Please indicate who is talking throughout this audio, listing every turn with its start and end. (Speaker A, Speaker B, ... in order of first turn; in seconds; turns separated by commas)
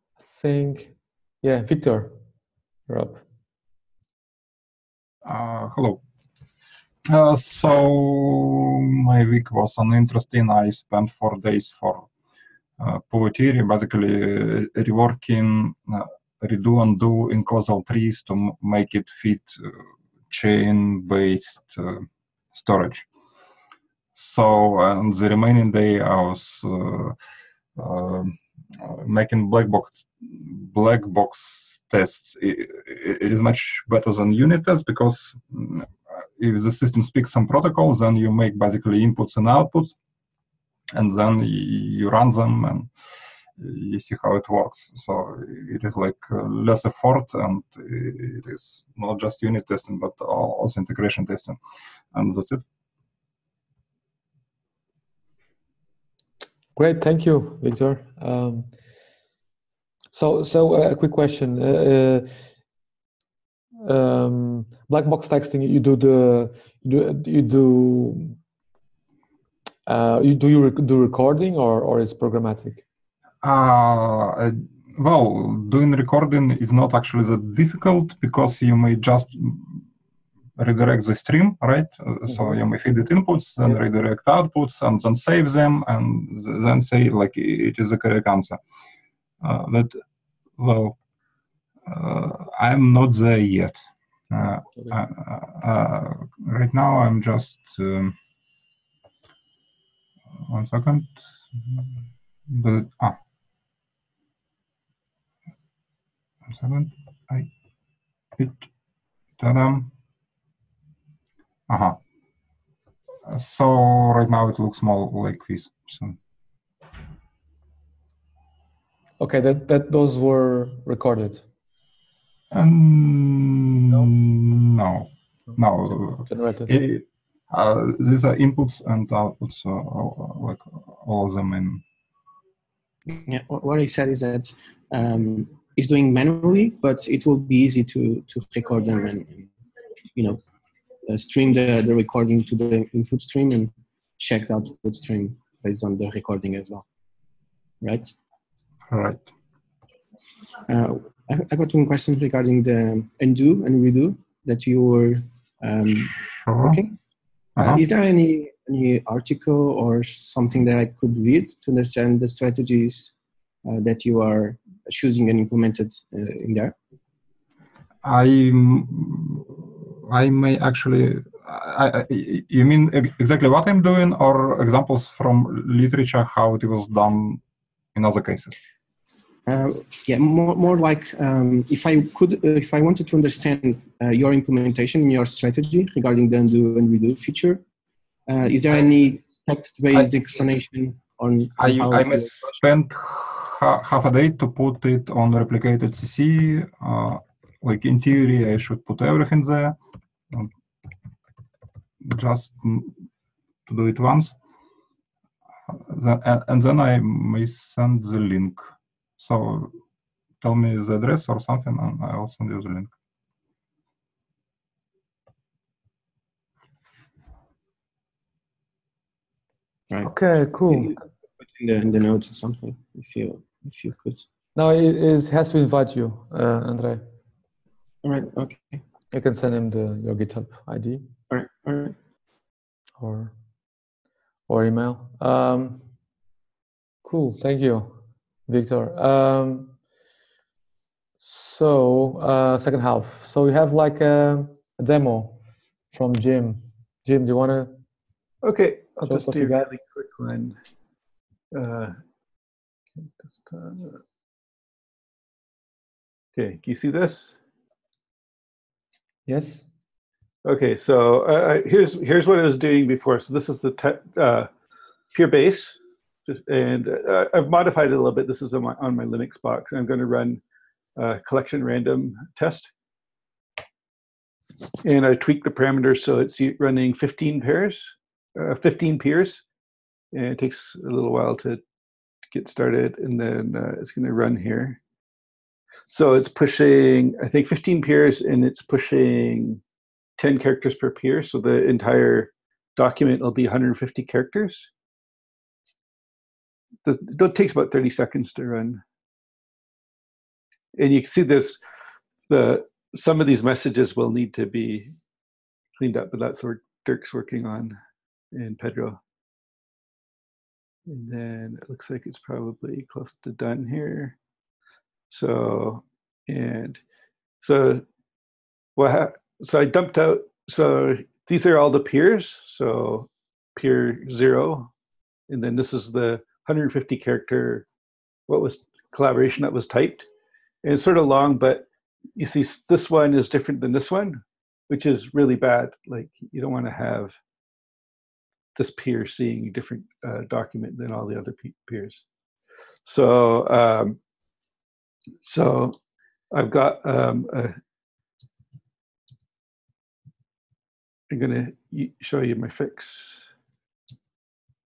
Speaker A: 0.2-2.1, Speaker A: 2.9-3.2, Speaker B: 5.2-6.0, Speaker B: 7.1-12.1, Speaker B: 12.8-19.8, Speaker B: 20.3-23.1, Speaker B: 24.1-27.1, Speaker B: 27.8-39.9, Speaker B: 40.9-42.9, Speaker B: 43.6-51.6, Speaker B: 52.1-52.6, Speaker A: 56.8-58.7, Speaker A: 60.1-62.3, Speaker A: 63.8-68.3, Speaker A: 69.9-72.8, Speaker B: 73.4-79.8, Speaker B: 80.6-88.6, Speaker A: 82.3-82.5, Speaker B: 89.4-90.0, Speaker B: 90.6-91.0, Speaker B: 91.8-93.8, Speaker B: 94.3-98.2, Speaker B: 100.4-103.2, Speaker B: 106.5-107.5, Speaker B: 108.3-108.7, Speaker B: 109.4-109.9, Speaker B: 111.7-112.0, Speaker B: 113.2-116.2, Speaker A: 119.2-121.4, Speaker B: 122.5-131.8, Speaker A: 125.5-126.7, Speaker C: 133.1-139.5, Speaker C: 140.1-140.4, Speaker C: 141.1-146.8, Speaker C: 147.8-148.1, Speaker B: 148.9-149.2, Speaker C: 150.7-156.9, Speaker B: 156.2-156.8, Speaker B: 157.6-157.8, Speaker C: 157.6-163.1, Speaker C: 163.6-166.7, Speaker B: 168.0-177.4, Speaker B: 177.9-178.6, Speaker C: 179.5-187.6, Speaker C: 188.3-192.6, Speaker B: 191.6-199.8, Speaker B: 202.0-203.0, Speaker B: 203.7-204.4, Speaker B: 205.7-208.7, Speaker B: 209.2-209.8, Speaker B: 210.4-212.9, Speaker A: 220.0-220.9, Speaker C: 220.7-224.2, Speaker A: 224.6-227.0, Speaker C: 228.0-228.8, Speaker A: 229.1-231.0, Speaker C: 231.3-231.9, Speaker A: 233.0-233.3, Speaker A: 234.5-235.8, Speaker A: 237.0-238.0, Speaker A: 238.5-239.7, Speaker A: 241.2-245.4, Speaker A: 245.9-247.7, Speaker D: 248.4-250.6, Speaker A: 249.0-249.7, Speaker D: 251.5-251.9, Speaker D: 253.0-254.0, Speaker D: 256.4-257.4, Speaker A: 259.3-259.6, Speaker D: 260.4-264.5, Speaker D: 265.1-270.4, Speaker D: 271.0-272.7, Speaker D: 274.8-279.4, Speaker D: 280.1-281.6, Speaker D: 282.3-284.8, Speaker D: 285.9-289.6, Speaker D: 290.2-294.7, Speaker D: 296.8-298.8, Speaker D: 300.7-301.6, Speaker D: 302.3-304.9, Speaker D: 305.8-307.8, Speaker D: 308.3-309.0, Speaker D: 310.9-314.2, Speaker D: 315.1-316.8, Speaker D: 317.4-317.8, Speaker D: 318.8-324.7, Speaker D: 325.3-327.7, Speaker D: 328.3-330.1, Speaker D: 330.6-337.1, Speaker D: 338.5-342.0, Speaker D: 342.8-344.0, Speaker D: 345.2-345.8, Speaker D: 346.3-347.5, Speaker D: 351.1-353.1